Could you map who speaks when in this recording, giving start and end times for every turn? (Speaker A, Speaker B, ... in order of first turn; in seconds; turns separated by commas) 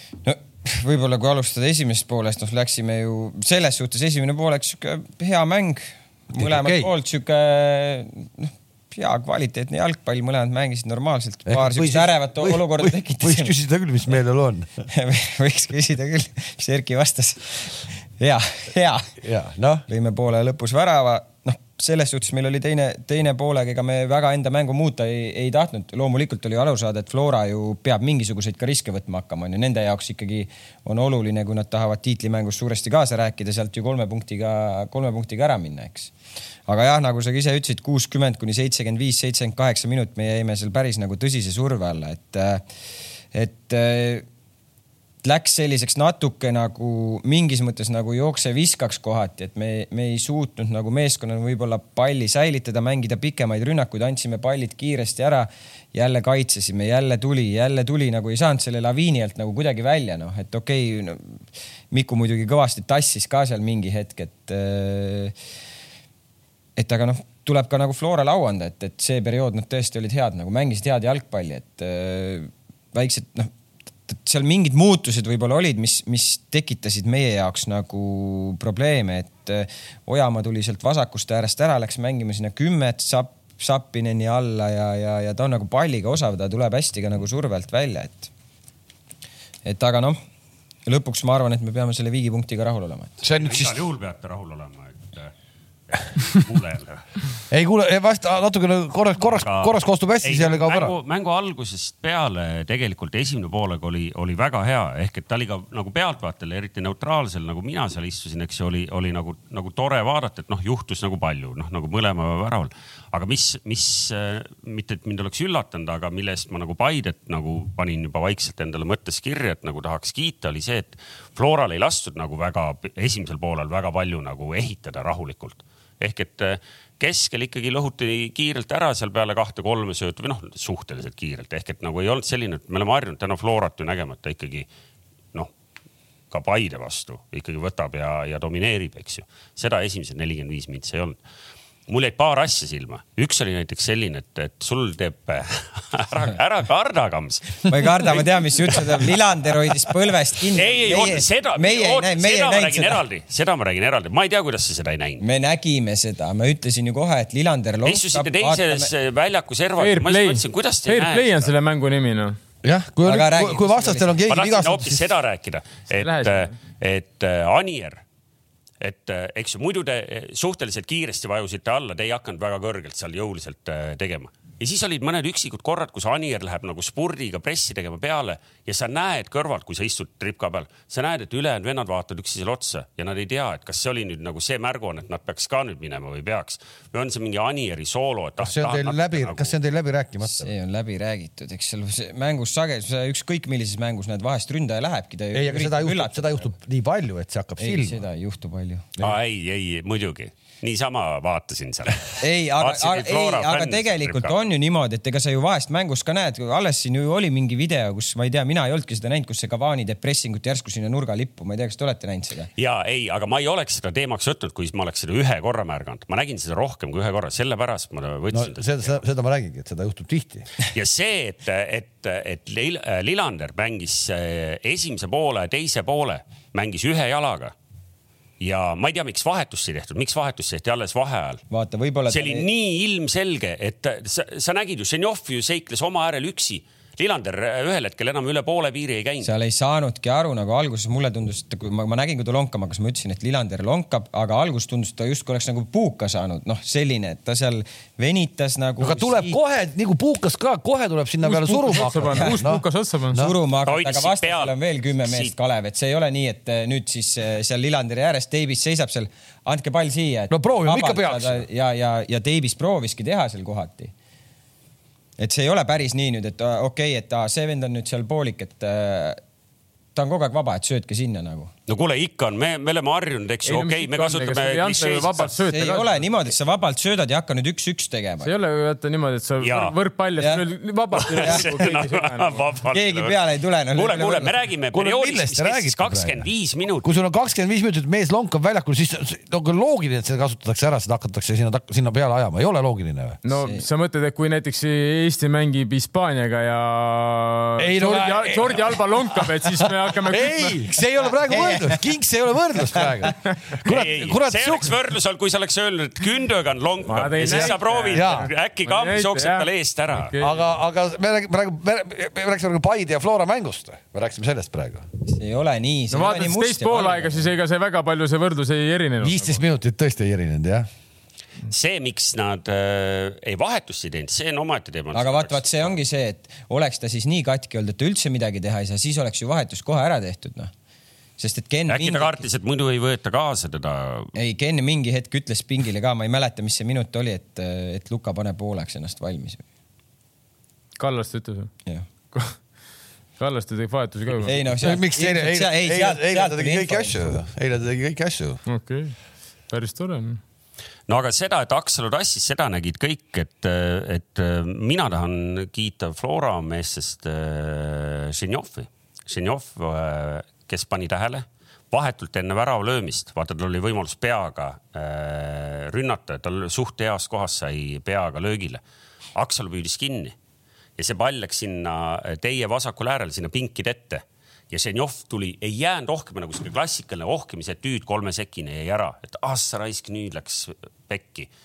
Speaker A: 0.2-13.5, Speaker B: 6.3-6.9, Speaker B: 11.5-14.7, Speaker A: 14.9-19.2, Speaker B: 19.2-19.8, Speaker A: 19.9-36.1, Speaker A: 36.7-42.6, Speaker A: 43.3-44.2, Speaker A: 45.2-61.4, Speaker A: 61.9-65.3, Speaker A: 66.8-73.5, Speaker A: 74.1-88.3, Speaker A: 89.6-90.2, Speaker A: 90.8-93.2, Speaker B: 93.2-93.8, Speaker C: 93.4-95.3, Speaker C: 95.9-97.0, Speaker B: 97.5-100.9, Speaker C: 99.2-134.7, Speaker C: 136.3-141.2, Speaker C: 141.9-149.9, Speaker A: 147.7-153.0, Speaker C: 150.4-155.2, Speaker A: 155.2-158.9, Speaker C: 157.8-161.5, Speaker D: 159.8-162.4, Speaker B: 162.6-165.1, Speaker A: 163.0-164.2, Speaker C: 164.3-168.0, Speaker D: 165.9-166.5, Speaker C: 168.8-189.5, Speaker B: 188.4-190.5, Speaker A: 190.3-196.5, Speaker B: 195.3-198.0, Speaker A: 197.6-198.9, Speaker C: 199.0-204.4, Speaker A: 202.2-212.5, Speaker C: 212.6-219.0, Speaker B: 218.3-220.5, Speaker C: 220.6-227.5, Speaker C: 228.4-231.4, Speaker A: 231.5-232.5, Speaker C: 232.1-239.3, Speaker A: 239.2-249.4, Speaker B: 248.8-253.3, Speaker D: 251.2-253.2, Speaker A: 253.1-263.9, Speaker C: 253.6-255.3, Speaker B: 260.3-261.4, Speaker A: 265.2-269.2, Speaker A: 269.9-271.5, Speaker C: 271.7-275.4, Speaker D: 273.4-276.1, Speaker A: 275.5-278.3, Speaker D: 278.2-282.4, Speaker C: 279.4-279.7, Speaker A: 280.2-280.4, Speaker C: 280.9-283.2, Speaker A: 281.2-281.5, Speaker A: 282.7-284.3, Speaker C: 283.7-286.9, Speaker B: 284.7-286.3, Speaker B: 286.8-293.2, Speaker D: 293.2-300.7, Speaker A: 293.4-293.6, Speaker B: 297.6-304.7, Speaker A: 301.3-301.8, Speaker A: 302.8-303.1, Speaker C: 303.6-310.1, Speaker D: 306.9-310.3, Speaker B: 307.2-308.3, Speaker B: 310.2-314.8, Speaker A: 315.1-317.3, Speaker D: 315.9-319.4, Speaker B: 319.0-320.6, Speaker C: 321.5-325.7, Speaker A: 324.9-330.5, Speaker A: 331.2-332.2, Speaker C: 331.7-334.1, Speaker A: 334.1-339.4, Speaker D: 340.8-341.5, Speaker D: 343.2-344.4, Speaker A: 344.2-347.1, Speaker B: 344.6-348.4, Speaker D: 348.4-348.9, Speaker D: 349.5-350.2, Speaker C: 350.9-368.6, Speaker C: 369.1-370.1, Speaker C: 370.8-381.3